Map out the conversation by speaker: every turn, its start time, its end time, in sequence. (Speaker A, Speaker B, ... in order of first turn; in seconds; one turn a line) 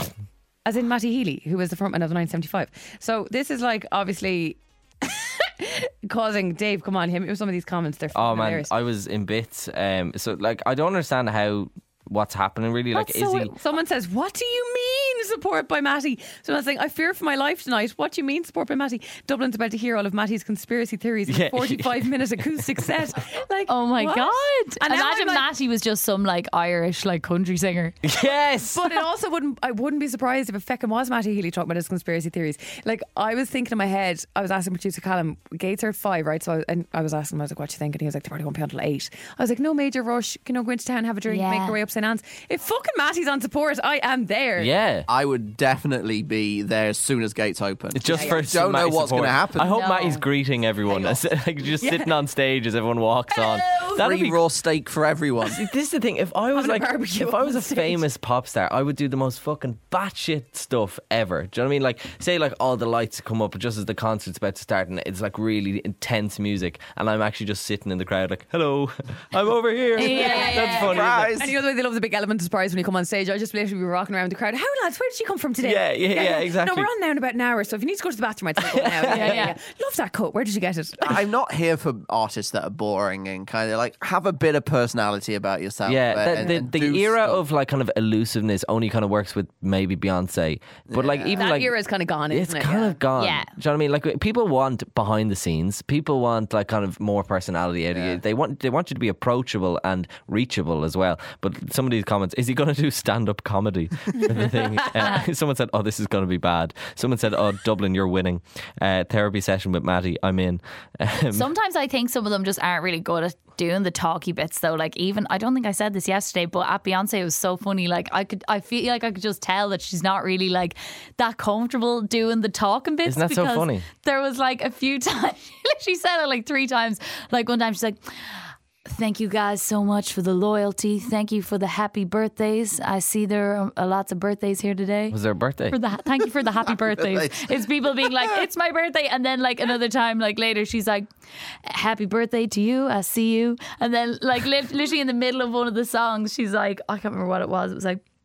Speaker A: 0.6-8.7
Speaker B: 8.1-13.5
Speaker A: 12.9-25.5
Speaker B: 21.3-22.9
Speaker C: 23.7-27.9
Speaker B: 28.0-28.9
Speaker A: 28.7-44.7
Speaker C: 41.3-41.8
Speaker B: 44.6-45.1
Speaker D: 45.1-49.7
Speaker B: 47.9-54.4
Speaker A: 48.1-48.4
Speaker C: 49.6-50.2
Speaker A: 50.9-51.2
Speaker A: 51.8-52.1
Speaker A: 53.3-53.9
Speaker D: 53.9-55.6
Speaker B: 55.5-71.3
Speaker A: 56.5-58.0
Speaker C: 70.0-70.9
Speaker A: 70.0-81.2
Speaker D: 70.7-71.5
Speaker B: 75.6-76.9
Speaker B: 78.6-79.4
Speaker C: 79.1-79.5
Speaker D: 81.0-87.4
Speaker B: 85.8-91.7
Speaker A: 86.3-86.6
Speaker D: 90.9-91.3
Speaker A: 91.3-93.0
Speaker B: 92.3-111.5
Speaker C: 93.2-93.5
Speaker A: 104.2-105.0
Speaker C: 111.3-135.2
Speaker B: 123.0-123.8
Speaker B: 135.1-135.8
Speaker C: 135.7-141.1
Speaker D: 136.8-137.5
Speaker C: 141.6-148.0